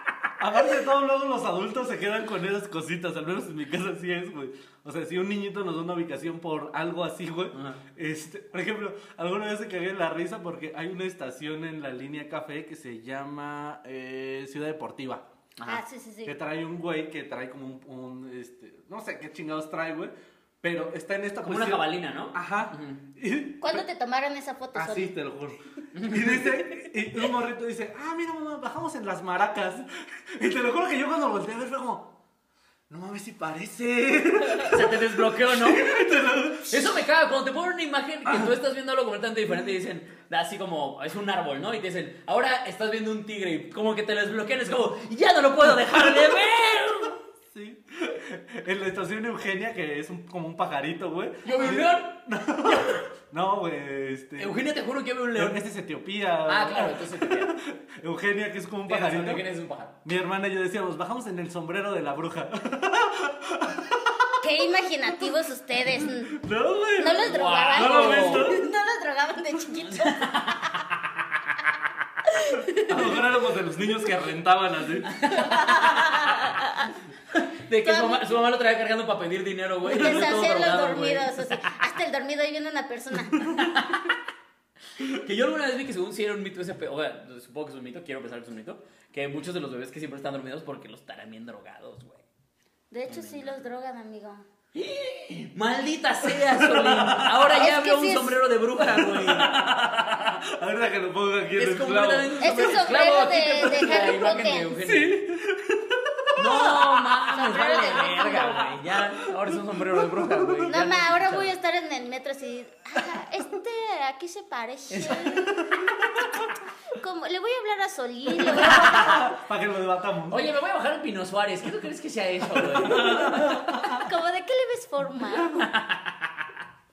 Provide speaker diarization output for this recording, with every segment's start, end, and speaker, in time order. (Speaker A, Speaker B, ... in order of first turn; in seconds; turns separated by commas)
Speaker A: 0.4-15.2, Speaker B: 7.5-7.8, Speaker B: 15.6-15.8, Speaker C: 15.7-16.3, Speaker A: 16.2-23.8, Speaker B: 21.4-23.0, Speaker C: 23.6-25.1, Speaker A: 24.7-32.1, Speaker B: 25.9-26.4, Speaker A: 32.9-36.8, Speaker B: 34.6-35.9, Speaker B: 36.7-47.2, Speaker A: 47.5-54.5, Speaker B: 51.4-53.0, Speaker B: 54.4-55.6, Speaker A: 55.3-59.5, Speaker B: 56.5-57.5, Speaker B: 58.9-59.9, Speaker A: 60.0-64.4, Speaker C: 64.4-66.3, Speaker A: 66.0-68.7, Speaker C: 67.0-70.5, Speaker B: 67.2-68.5, Speaker B: 70.0-70.8, Speaker C: 72.3-73.2, Speaker A: 72.8-75.1, Speaker B: 75.0-76.1, Speaker C: 75.3-76.9, Speaker B: 77.3-81.6, Speaker C: 77.8-78.2, Speaker C: 79.8-83.7, Speaker A: 79.9-80.3, Speaker B: 83.5-84.1, Speaker B: 85.0-92.2, Speaker C: 92.9-94.4, Speaker B: 93.1-93.6, Speaker B: 94.7-100.4, Speaker A: 96.3-97.6, Speaker C: 97.5-98.4, Speaker A: 98.8-102.6, Speaker B: 101.5-105.2, Speaker C: 102.4-104.8, Speaker A: 104.8-106.8, Speaker B: 106.3-111.5, Speaker C: 106.5-108.7, Speaker A: 109.2-110.8, Speaker C: 110.7-116.1, Speaker B: 114.9-115.3, Speaker A: 115.8-116.1, Speaker C: 117.0-119.2, Speaker A: 118.4-120.4, Speaker B: 118.6-119.2, Speaker B: 120.3-123.8, Speaker A: 122.5-124.1, Speaker C: 123.9-125.6, Speaker B: 125.5-126.5